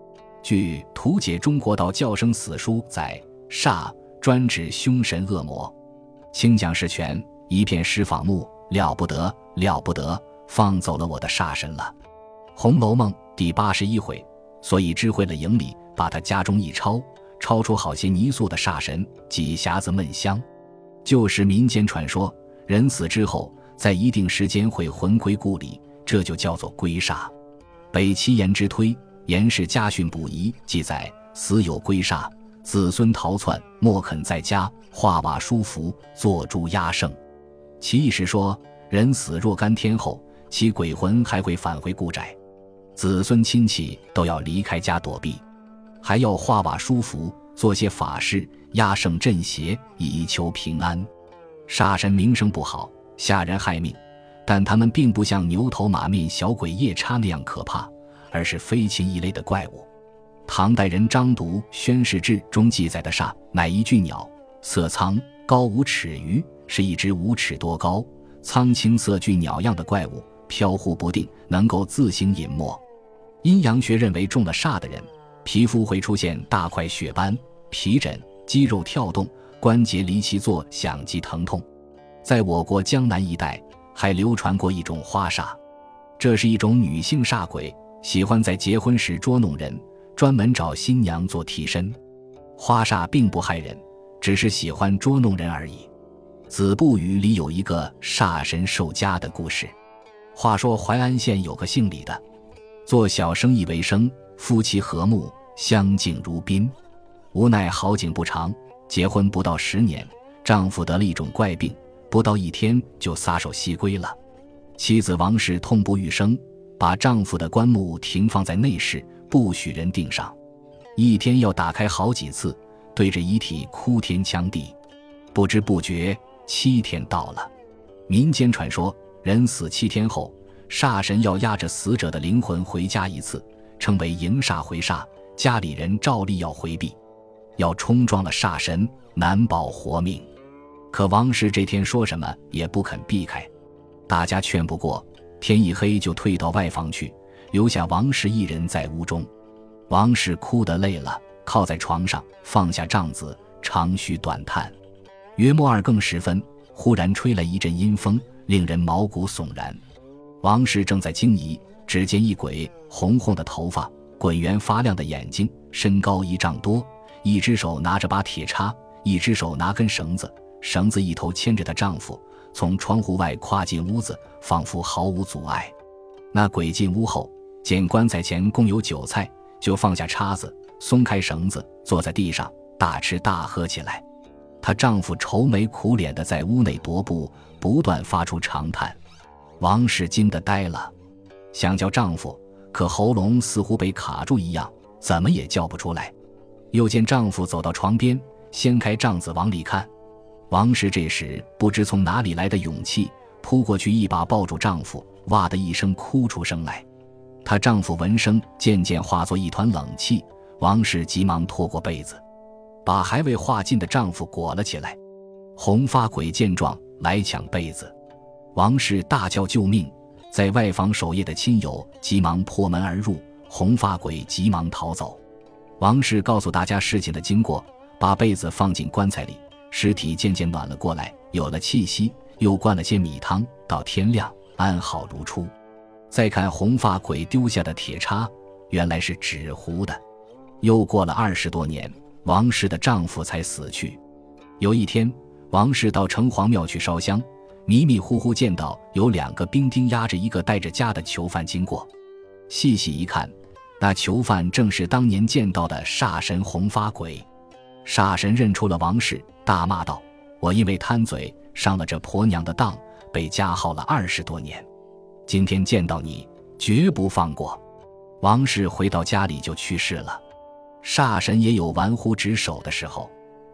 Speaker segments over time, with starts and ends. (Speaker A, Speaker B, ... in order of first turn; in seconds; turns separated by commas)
Speaker A: 0.4-5.8, Speaker A: 6.3-11.9, Speaker A: 12.6-20.5, Speaker A: 21.1-27.3, Speaker A: 27.9-37.2, Speaker A: 37.8-42.4, Speaker A: 43.0-45.4, Speaker A: 46.0-51.1, Speaker A: 51.7-59.9, Speaker A: 60.5-72.8, Speaker A: 73.4-81.7, Speaker A: 82.2-85.6, Speaker A: 86.2-92.0, Speaker A: 92.6-95.9, Speaker A: 96.5-99.7, Speaker A: 100.3-102.2, Speaker A: 102.8-106.8, Speaker A: 107.3-114.2, Speaker A: 114.8-120.4, Speaker A: 121.0-124.8, Speaker A: 125.3-127.5, Speaker A: 128.1-137.0, Speaker A: 137.6-140.3, Speaker A: 140.9-143.5, Speaker A: 144.1-149.3, Speaker A: 149.9-154.8, Speaker A: 155.4-159.8, Speaker A: 160.4-175.8, Speaker A: 176.3-184.0, Speaker A: 184.6-189.0, Speaker A: 189.6-190.9, Speaker A: 191.5-196.2, Speaker A: 196.7-199.9, Speaker A: 200.5-206.9, Speaker A: 207.4-212.2, Speaker A: 212.8-215.0, Speaker A: 215.6-217.9, Speaker A: 218.6-225.2, Speaker A: 225.8-235.5, Speaker A: 236.1-240.0, Speaker A: 240.6-244.0, Speaker A: 244.6-251.9, Speaker A: 252.5-257.3, Speaker A: 257.8-264.7, Speaker A: 265.3-267.6, Speaker A: 268.2-270.2, Speaker A: 270.8-273.1